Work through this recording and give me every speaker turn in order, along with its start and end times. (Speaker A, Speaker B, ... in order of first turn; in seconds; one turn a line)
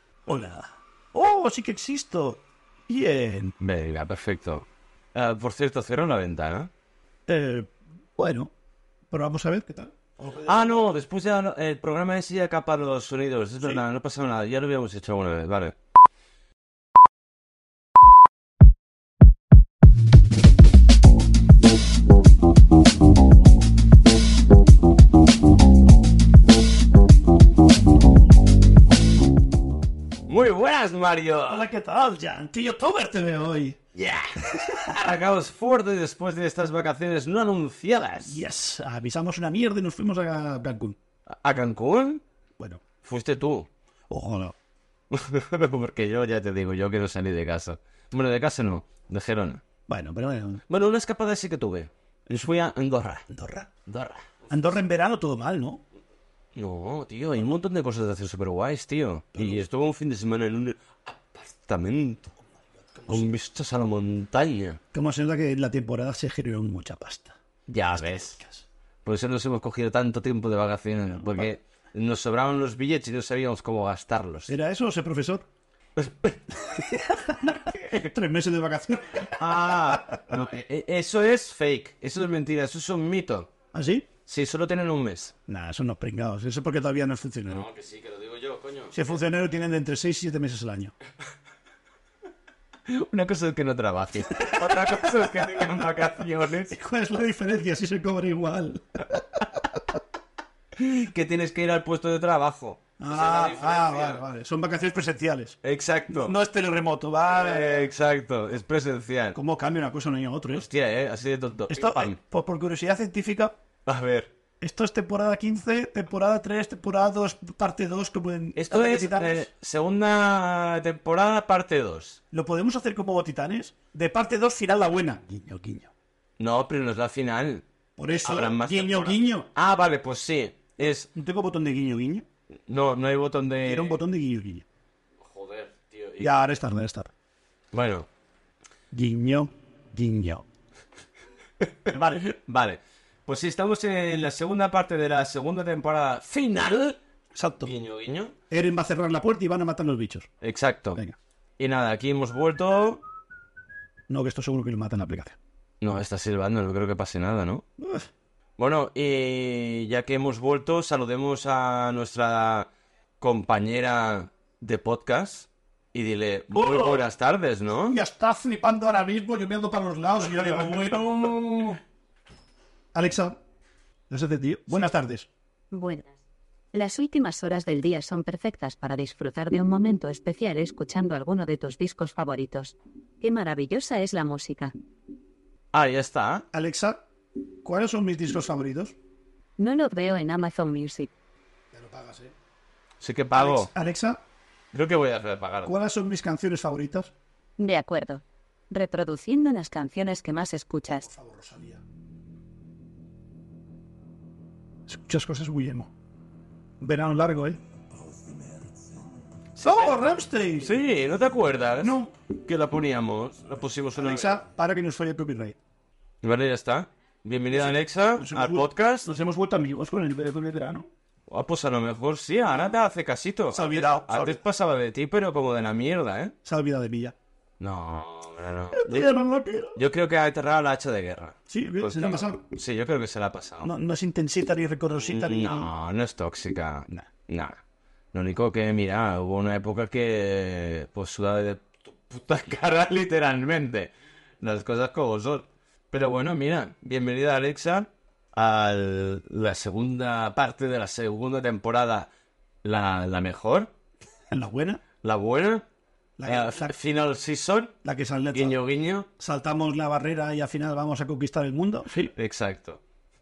Speaker A: 0.3-3.5
Speaker B: 3.6-6.7
Speaker A: 7.3-8.5
Speaker A: 9.1-10.8
Speaker B: 10.4-15.8
Speaker B: 30.3-31.7
Speaker A: 31.5-33.8
Speaker B: 33.9-38.4
Speaker A: 34.5-35.0
Speaker A: 38.2-41.0
Speaker B: 41.3-42.2
Speaker B: 43.0-43.7
Speaker A: 44.1-44.5
Speaker B: 45.1-49.6
Speaker A: 49.9-50.6
Speaker B: 50.7-53.3
Speaker A: 53.3-53.7
Speaker B: 53.9-54.3
Speaker A: 54.5-55.8
Speaker B: 56.5-62.3
Speaker A: 62.9-63.3
Speaker B: 63.1-64.8
Speaker A: 64.9-67.3
Speaker B: 67.7-68.4
Speaker A: 68.0-68.6
Speaker B: 69.0-74.5
Speaker A: 74.5-75.4
Speaker B: 76.0-76.6
Speaker A: 76.7-80.2
Speaker B: 79.3-83.5
Speaker A: 83.7-84.1
Speaker B: 84.2-85.3
Speaker A: 85.5-87.7
Speaker B: 87.5-89.1
Speaker A: 88.9-90.9
Speaker B: 92.8-96.7
Speaker A: 94.4-95.1
Speaker A: 96.7-100.0
Speaker B: 100.7-104.2
Speaker A: 103.0-105.6
Speaker B: 105.6-106.3
Speaker A: 106.1-107.9
Speaker B: 107.2-109.4
Speaker A: 109.3-110.7
Speaker B: 110.5-112.2
Speaker A: 111.7-113.5
Speaker B: 113.8-114.3
Speaker A: 114.6-119.5
Speaker B: 118.5-122.2
Speaker A: 122.3-125.9
Speaker B: 126.4-127.6
Speaker A: 128.0-129.5
Speaker B: 128.2-131.1
Speaker A: 131.1-132.2
Speaker B: 132.7-134.0
Speaker A: 133.6-134.6
Speaker B: 135.2-136.4
Speaker A: 136.2-137.1
Speaker B: 137.7-138.1
Speaker A: 138.9-140.4
Speaker A: 141.9-142.3
Speaker B: 141.9-147.0
Speaker A: 147.3-147.7
Speaker B: 147.6-148.3
Speaker A: 148.5-150.3
Speaker B: 150.4-151.0
Speaker B: 151.6-153.0
Speaker A: 154.1-155.4
Speaker B: 155.8-157.7
Speaker A: 157.8-158.1
Speaker B: 158.6-162.7
Speaker B: 163.2-168.0
Speaker A: 166.5-167.0
Speaker A: 167.9-171.1
Speaker B: 170.3-171.8
Speaker A: 172.9-173.4
Speaker A: 174.1-175.3
Speaker C: 175.7-176.1
Speaker C: 176.7-184.7
Speaker B: 185.7-186.4
Speaker A: 186.5-187.0
Speaker A: 187.6-188.9
Speaker C: 189.6-191.1
Speaker A: 191.7-192.3
Speaker B: 193.0-193.7
Speaker A: 193.3-194.2
Speaker B: 194.7-195.7
Speaker A: 195.7-197.1
Speaker C: 197.6-201.1
Speaker A: 201.0-201.8
Speaker A: 204.9-205.9
Speaker A: 206.8-207.6
Speaker A: 208.1-208.7
Speaker B: 209.6-210.0
Speaker A: 209.6-210.8
Speaker B: 210.6-214.4
Speaker A: 211.8-212.1
Speaker A: 213.9-215.6
Speaker B: 216.2-219.1
Speaker A: 217.5-220.9
Speaker B: 221.3-226.3
Speaker A: 223.5-224.4
Speaker A: 226.4-227.1
Speaker B: 227.6-229.1
Speaker A: 228.7-229.8
Speaker B: 229.7-233.7
Speaker A: 231.5-232.4
Speaker A: 233.6-235.7
Speaker B: 235.0-237.6
Speaker B: 238.1-252.1
Speaker B: 252.6-253.7
Speaker A: 254.3-254.8
Speaker B: 255.0-255.6
Speaker A: 256.2-256.7
Speaker B: 256.2-257.8
Speaker A: 257.8-258.6
Speaker B: 258.3-259.1
Speaker A: 259.2-262.1
Speaker B: 262.1-262.8